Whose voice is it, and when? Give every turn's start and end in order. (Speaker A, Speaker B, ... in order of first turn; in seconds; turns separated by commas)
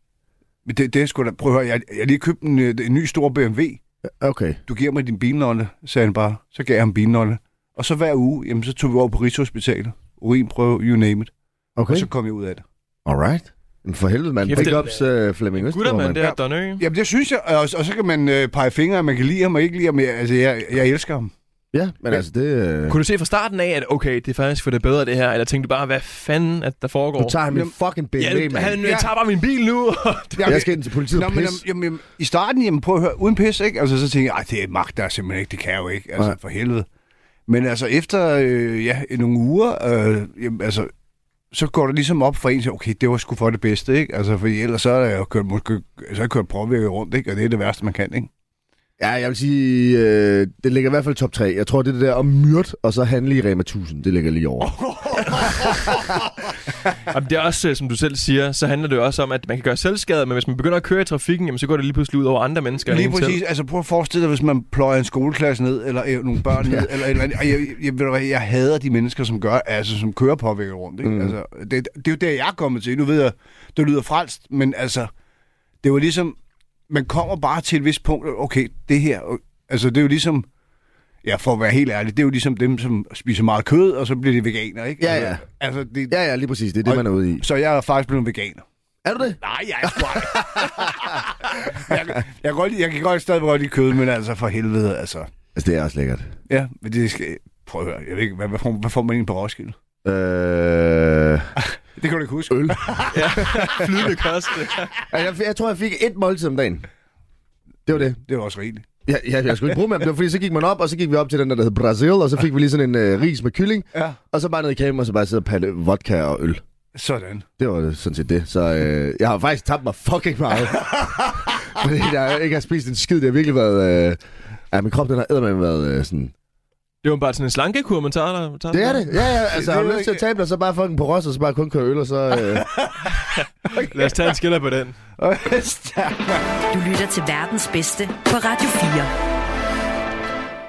Speaker A: 0.7-3.8, Speaker B: 4.2-4.6, Speaker A: 4.7-11.3, Speaker B: 11.8-12.1, Speaker A: 11.9-12.6, Speaker B: 13.1-16.2, Speaker C: 14.4-15.0, Speaker C: 15.5-16.8, Speaker A: 16.2-21.3, Speaker B: 21.7-23.0, Speaker C: 22.9-27.4, Speaker B: 27.2-28.9, Speaker C: 28.2-30.7, Speaker A: 28.8-29.1, Speaker A: 30.4-36.9, Speaker B: 30.4-31.6, Speaker A: 37.5-40.9, Speaker A: 41.5-48.3, Speaker B: 49.0-54.7, Speaker A: 54.6-56.1, Speaker B: 55.3-55.8, Speaker C: 57.1-63.4, Speaker A: 62.9-75.1, Speaker B: 66.6-66.9, Speaker B: 71.0-71.3, Speaker A: 75.8-76.4, Speaker A: 76.9-80.5, Speaker A: 81.2-86.2, Speaker B: 85.0-85.4, Speaker B: 86.1-87.4, Speaker A: 86.8-88.6, Speaker B: 89.0-91.2, Speaker A: 89.4-95.3, Speaker B: 95.5-96.3, Speaker A: 96.5-99.7, Speaker B: 100.0-101.5, Speaker A: 101.6-103.6, Speaker B: 102.5-103.5, Speaker C: 103.1-105.0, Speaker B: 105.0-106.9, Speaker B: 107.8-108.2, Speaker A: 107.9-108.8, Speaker B: 109.0-116.6, Speaker A: 116.9-117.5, Speaker B: 117.6-124.2, Speaker B: 124.7-126.3, Speaker C: 127.0-129.1, Speaker B: 128.7-132.7, Speaker A: 129.5-130.2, Speaker A: 132.6-134.3, Speaker C: 133.7-134.9, Speaker A: 135.2-136.4, Speaker D: 136.7-139.1